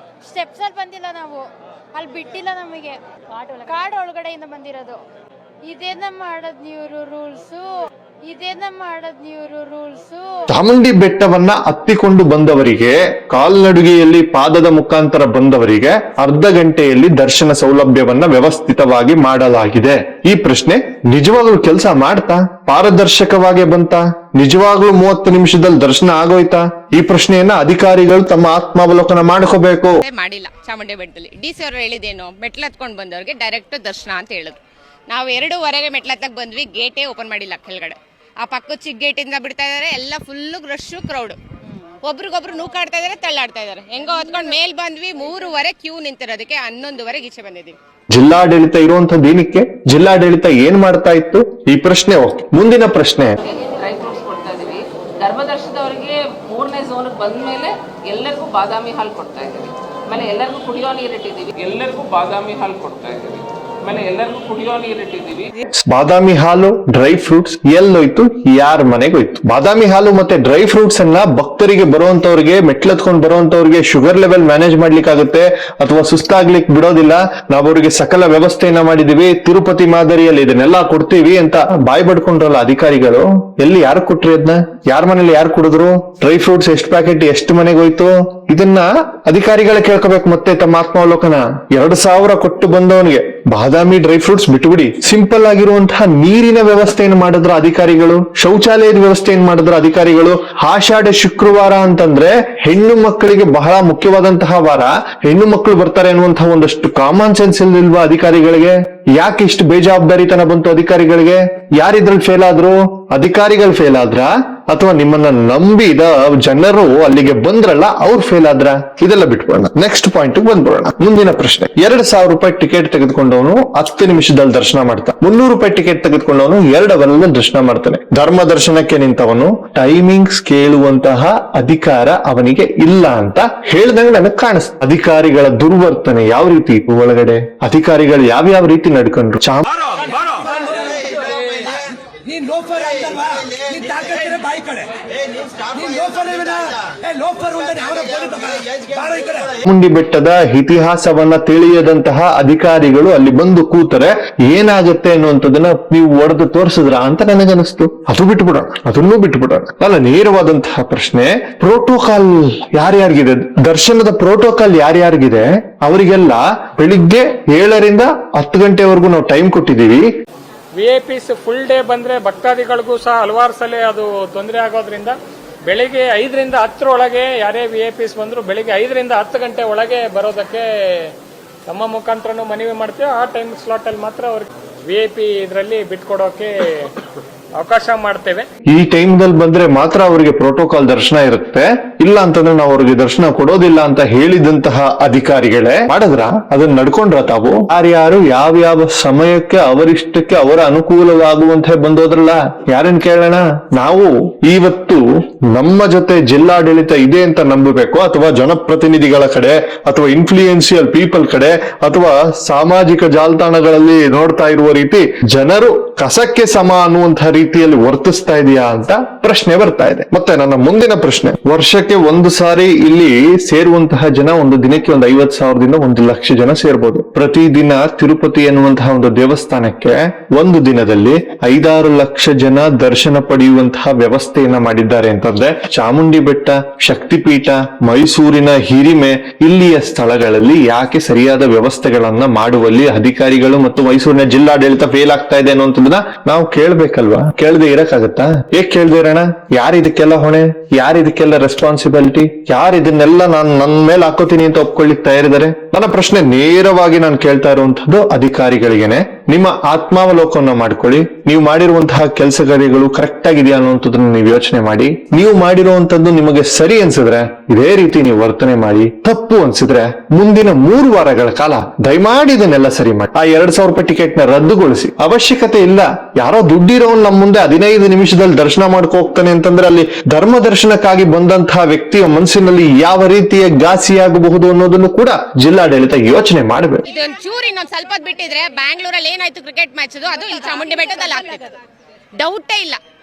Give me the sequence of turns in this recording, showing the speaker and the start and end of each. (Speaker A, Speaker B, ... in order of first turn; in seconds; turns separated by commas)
Speaker A: 0.2-1.4, Speaker A: 1.9-5.0, Speaker A: 5.7-7.7, Speaker A: 8.3-10.4, Speaker B: 10.5-30.0, Speaker C: 30.0-34.6, Speaker C: 35.1-41.4, Speaker C: 42.0-47.8, Speaker B: 48.1-53.4, Speaker D: 53.4-65.5, Speaker B: 65.8-139.7, Speaker E: 140.4-149.5, Speaker B: 149.7-170.0, Speaker F: 170.8-181.1, Speaker F: 181.7-186.9, Speaker F: 187.6-188.5, Speaker B: 188.7-286.9, Speaker C: 286.9-291.6, Speaker C: 292.2-292.8